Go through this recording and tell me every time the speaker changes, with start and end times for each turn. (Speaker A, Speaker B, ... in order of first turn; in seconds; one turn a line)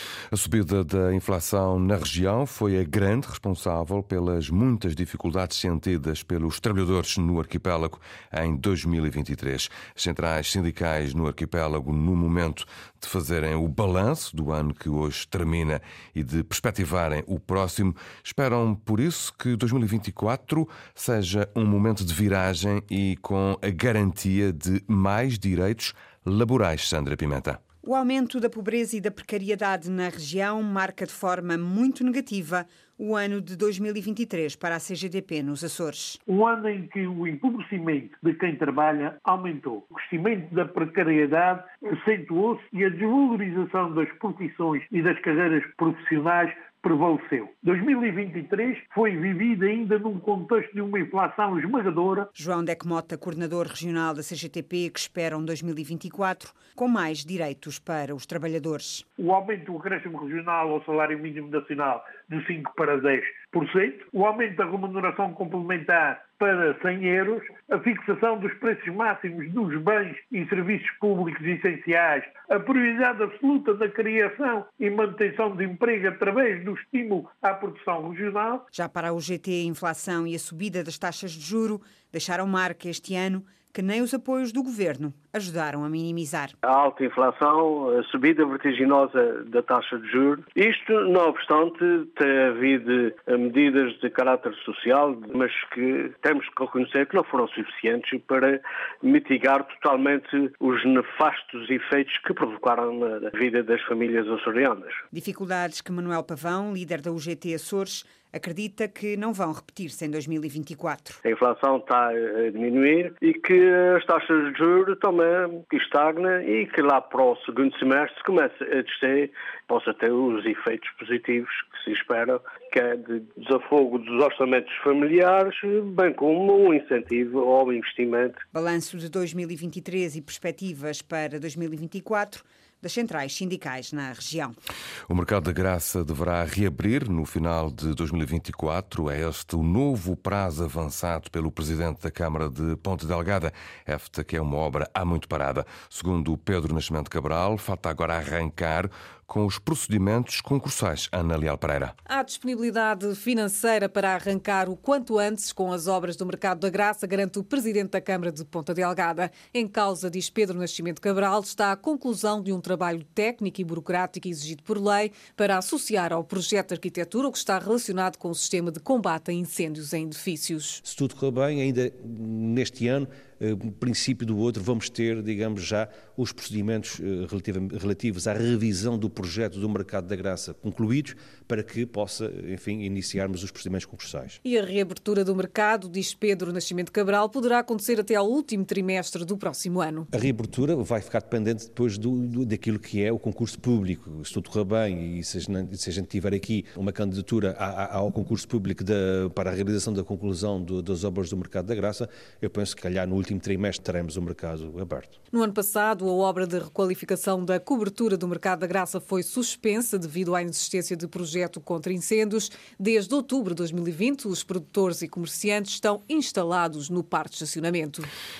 Speaker A: 0.3-27.6
Speaker B: 27.9-36.0
Speaker C: 36.3-52.3
Speaker B: 52.5-58.9
Speaker C: 59.2-78.6
Speaker B: 78.8-86.5
Speaker D: 86.6-105.0
Speaker B: 105.2-111.1
Speaker D: 111.3-128.4
Speaker B: 128.6-134.5
Speaker A: 135.1-151.9
Speaker E: 152.1-170.8
Speaker F: 170.8-184.4
Speaker E: 184.4-190.1
Speaker F: 190.1-205.2
Speaker E: 205.3-218.1